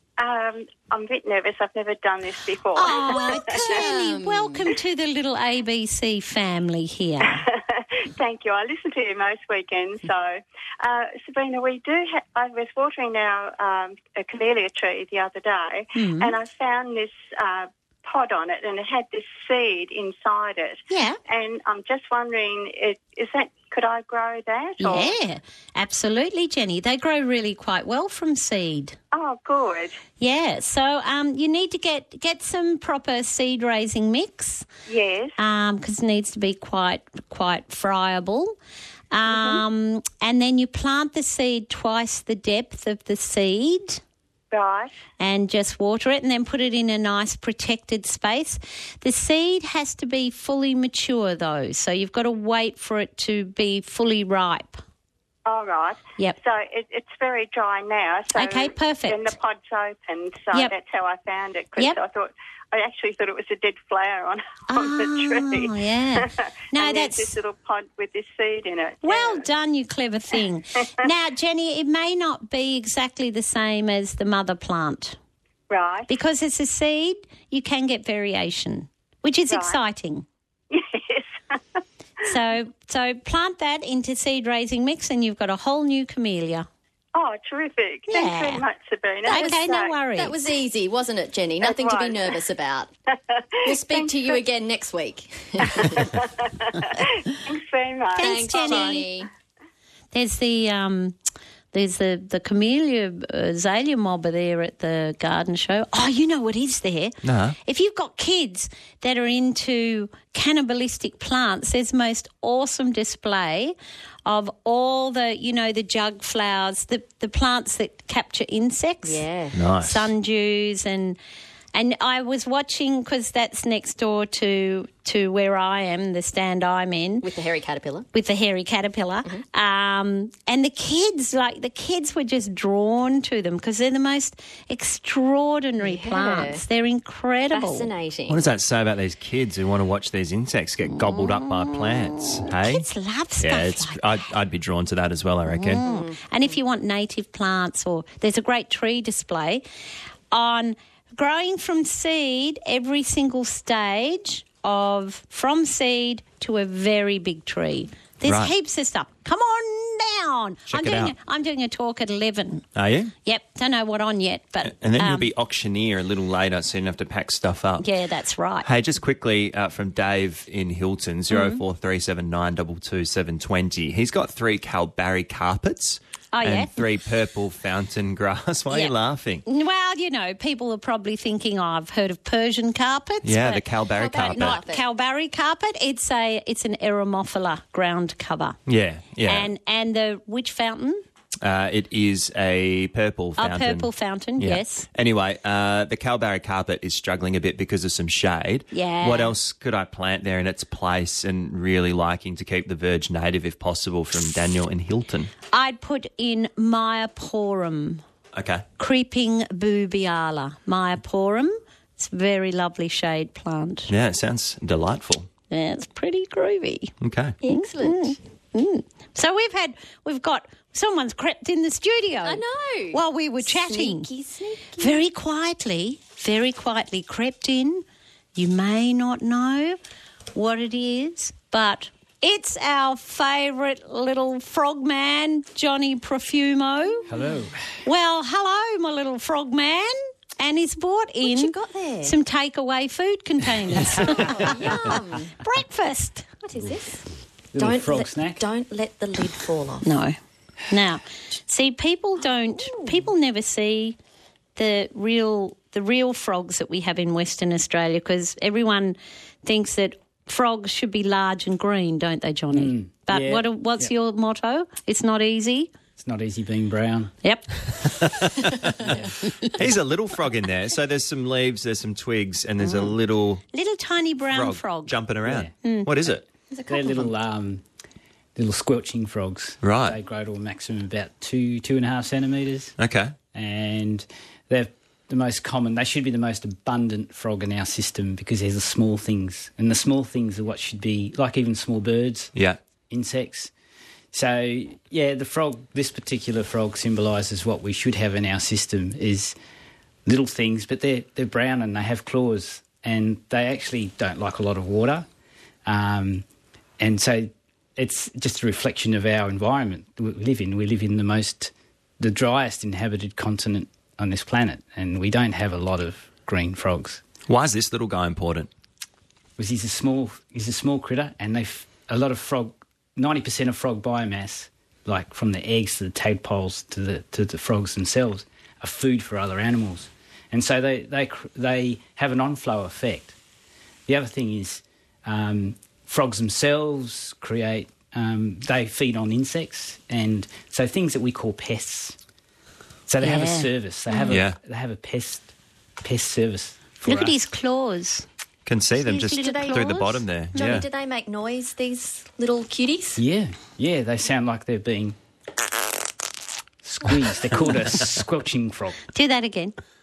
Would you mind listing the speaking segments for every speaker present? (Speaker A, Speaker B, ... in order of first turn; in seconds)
Speaker A: 0.2-3.8, 7.3-25.2, 29.1-30.0, 34.9-35.3, 39.2-39.6, 44.5-44.9, 55.5-69.5, 75.7-76.1, 79.5-79.8, 80.7-81.6, 87.1-90.0, 91.6-92.4, 93.3-94.4, 95.7-99.1
Speaker B: 2.7-7.4, 15.9-16.3, 20.9-21.2, 24.8-29.0, 30.2-34.6, 35.4-38.5, 39.1-44.0, 45.2-54.8, 58.3-59.3, 64.7-67.3, 69.0-75.2, 76.1-80.2, 82.2-86.7, 88.1-88.6, 89.3-90.3, 98.2-99.0, 100.1-101.2, 101.7-119.2, 119.8-121.2, 121.7-127.3, 128.1-137.9, 141.2-141.8, 142.5-144.0, 145.5-149.6, 150.3-162.7, 163.2-165.3, 167.8-168.7, 171.3-171.6, 176.3-176.8, 179.4-188.6, 189.2-191.0, 193.4-194.9, 198.7-199.3, 205.5-208.0, 208.8-213.9, 215.5-216.9, 217.5-224.1, 224.8-227.8, 228.3-229.8, 230.3-237.1, 237.8-244.9, 245.4-246.3, 249.8-250.1, 250.7-253.9, 254.6-265.7, 267.2-267.9, 272.6-272.9, 273.5-274.9, 275.6-275.9, 343.0-344.1, 346.8-348.0, 348.9-349.9, 358.9-359.6
Speaker C: 3.0-4.7, 89.2-92.9, 93.6-96.1, 98.2-99.3, 119.0-119.6, 127.2-128.1, 135.8-136.6, 137.5-138.4, 145.8-146.5, 183.9-184.8, 217.4-218.2, 222.2-225.0, 241.2-242.2, 243.8-245.3, 246.4-247.0, 247.6-249.9, 252.5-253.0, 276.5-277.1, 348.9-353.0
Speaker D: 107.2-107.6, 119.5-120.1, 138.3-142.9, 143.4-145.8, 158.2-158.5, 160.7-161.1, 162.7-163.1, 164.6-167.8, 168.6-179.4, 183.2-184.6, 188.7-189.5, 191.4-205.3, 208.3-208.7, 213.9-215.3, 217.0-217.3, 267.8-273.4, 274.3-276.2, 279.6-280.0, 282.8-283.1, 292.3-292.6, 317.3-318.5, 344.1-344.4, 348.4-350.6
Speaker E: 237.1-237.6, 247.5-248.4, 262.5-263.9, 266.0-267.1, 268.8-269.1, 275.2-275.5, 276.7-277.6, 278.4-282.8, 283.3-292.3, 292.9-293.5, 294.1-299.3, 300.1-305.1, 305.6-306.2, 306.8-317.0, 319.4-333.1, 333.9-342.0, 342.9-347.2, 352.9-354.9, 356.6-358.8